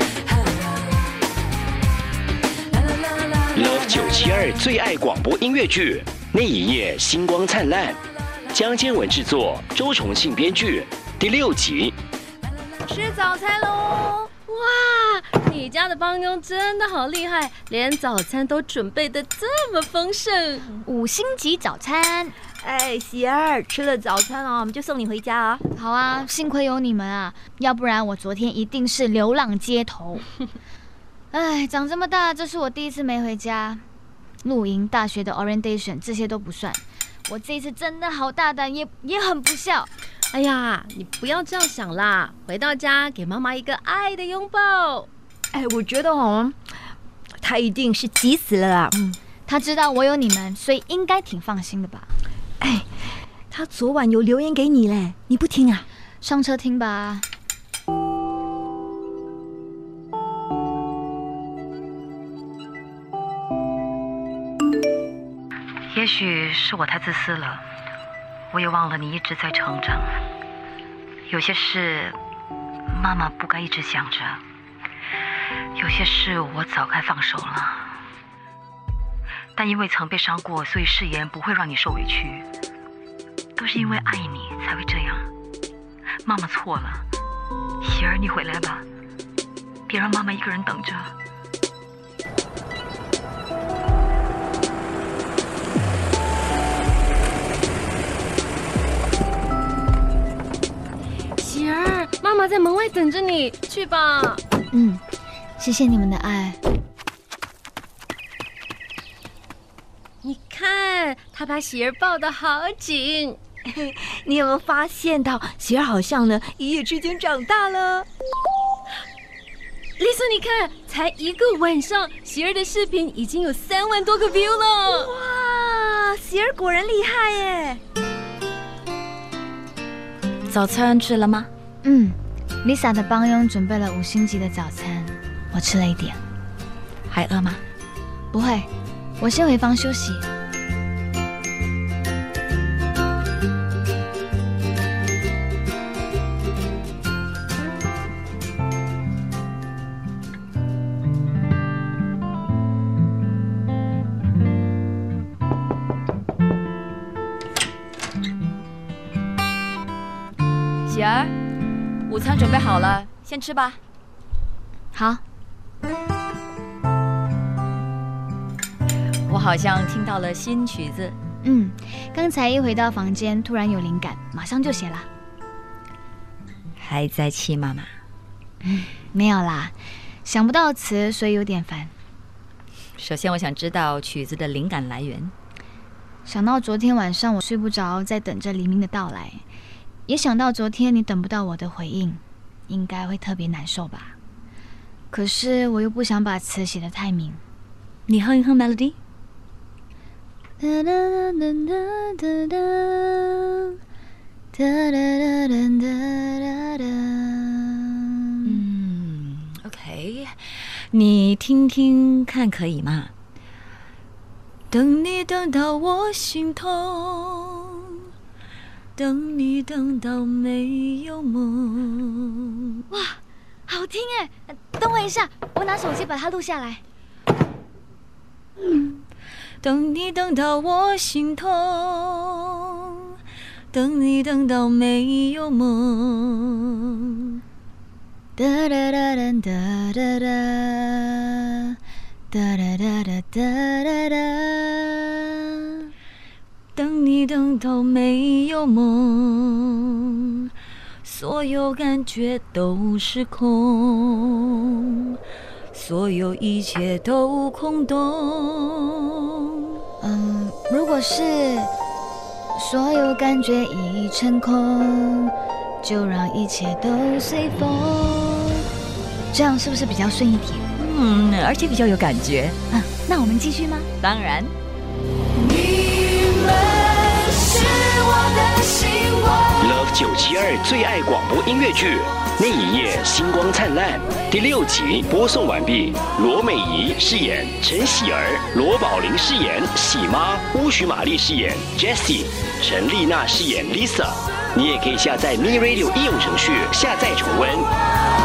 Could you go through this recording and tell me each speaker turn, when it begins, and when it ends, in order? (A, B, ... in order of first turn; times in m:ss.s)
0:03.5-0:08.0 A
0:08.5-0:11.9 A
0:12.9-0:20.7 B
0:20.8-0:22.3 C
0:22.6-0:25.6 D
0:25.7-0:30.3 C
0:31.3-0:33.8 C
0:34.4-0:39.9 C
0:40.3-0:45.1 B
0:45.5-0:46.6 D
0:47.4-0:49.2 D
0:49.5-0:52.1 C
0:53.5-0:55.8 D
0:56.2-0:57.3 C
1:05.9-1:07.6 E
1:08.5-1:10.2 E
1:11.3-1:12.2 E
1:12.9-1:14.4 E
1:15.8-1:18.0 E
1:19.6-1:22.5 E
1:23.6-1:25.3 E
1:26.2-1:27.0 E
1:27.8-1:28.8 E
1:29.9-1:31.1 E
1:41.4-1:44.4 B
1:44.7-1:45.0 C
1:45.6-1:46.6 C
1:50.2-1:53.4 B
1:53.7-1:58.1 D
2:00.0-2:05.1 B
2:04.9-2:07.8 D
2:10.5-2:11.5 E
2:11.8-2:16.2 C
2:17.1-2:17.6 E
2:18.3-2:18.7 C
2:19.2-2:20.2 C
2:40.9-2:41.3 E
2:42.1-2:43.8 E
2:44.9-2:45.2 C
2:49.3-2:51.2 E
2:51.4-2:55.1 C
2:56.8-2:57.9 E
2:58.6-3:01.9 C
3:03.0-3:05.3 E
3:06.3-3:09.4 C
3:10.1-3:14.2 C
3:15.1-3:17.4 C
3:18.1-3:19.0 E
3:20.6-3:23.8 C
3:24.5-3:28.6 C
3:28.4-3:33.1 E
3:34.7-3:38.0 E
3:39.0-3:42.8 E
3:42.9-3:46.8 C
3:49.6-3:53.0 E
3:53.7-3:57.4 E
3:58.4-4:01.8 C
4:02.3-4:05.8 C
4:06.8-4:10.5 E
4:11.0-4:14.5 E
4:15.7-4:19.0 E
4:20.0-4:21.7 C
4:22.6-4:28.6 C
4:29.3-4:30.7 C
4:30.8-4:32.6 E
4:32.7-4:33.9 C
4:34.0-4:34.5 E
4:35.5-4:39.1 B
4:39.6-4:57.7 A